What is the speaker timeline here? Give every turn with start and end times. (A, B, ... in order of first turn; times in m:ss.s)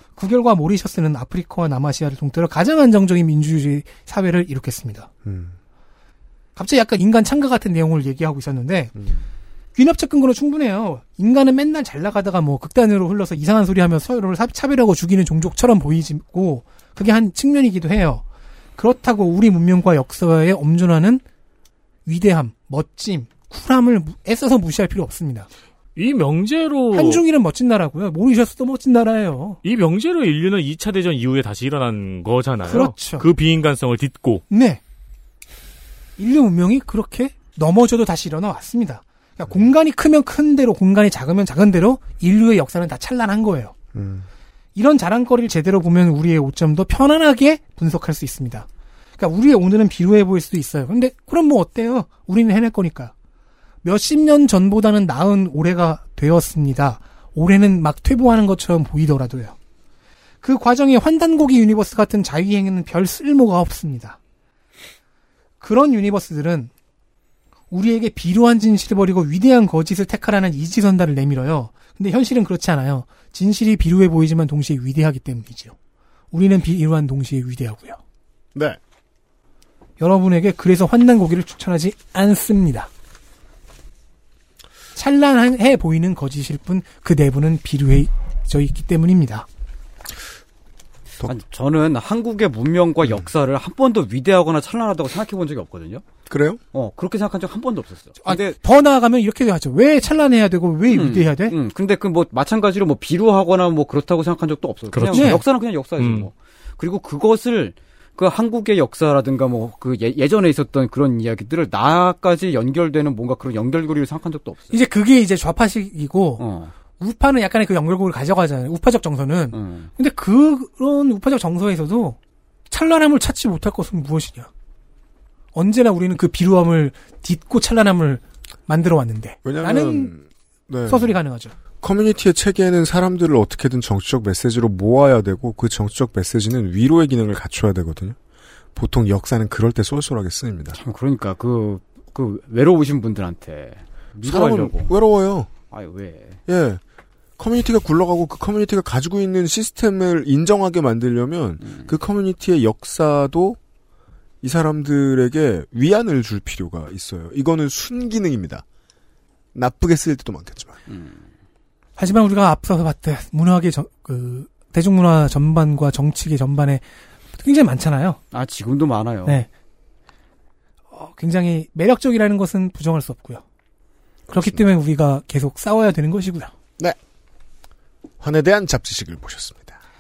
0:00.2-0:05.1 A
0:05.2-0:05.6 B
0:06.6-0:08.9 A
0:09.0-0:09.2 B
0:09.8-0:18.2 A
0:18.8-0:21.2 A
0:22.1-0:25.5 A
0:26.0-0:27.2 C
0:26.9-0:29.6 A
0:29.6-0:34.4 C
0:32.6-0:33.3 A
0:34.5-0:34.8 A
0:36.2-0:43.7 A
0:43.9-0:44.3 B
0:44.8-0:48.7 A
0:49.2-0:53.1 A
0:53.8-0:59.6 A
1:00.4-1:04.2 A
1:05.6-1:06.7 A
1:07.7-1:15.8 A
1:16.3-1:18.0 A
1:20.0-1:22.9 A
1:25.0-1:29.5 A
1:31.2-1:36.0 D
1:36.3-1:36.6 B
1:36.7-1:38.6 D
1:38.2-1:41.6 A
1:40.9-1:54.8 D
1:44.9-1:45.4 C
1:45.1-1:45.4 A
1:46.0-1:46.3 C
1:54.7-1:56.4 A
1:56.4-1:56.7 D
1:57.0-2:02.2 A
1:59.5-1:59.9 D
2:02.7-2:04.5 A
2:05.6-2:10.1 A
2:09.4-2:11.2 B
2:10.9-2:11.5 A
2:11.8-2:18.2 B
2:18.8-2:20.8 B
2:20.8-2:24.9 D
2:24.2-2:25.5 B
2:25.7-2:26.4 D
2:26.5-2:26.8 B
2:27.4-2:33.6 B
2:34.4-2:38.6 B
2:39.5-2:40.8 B
2:40.9-2:41.2 D
2:42.0-2:46.8 A
2:47.4-2:48.2 A
2:48.3-2:49.4 D
2:50.9-2:53.4 A
2:54.3-2:56.5 A
2:58.2-2:59.8 B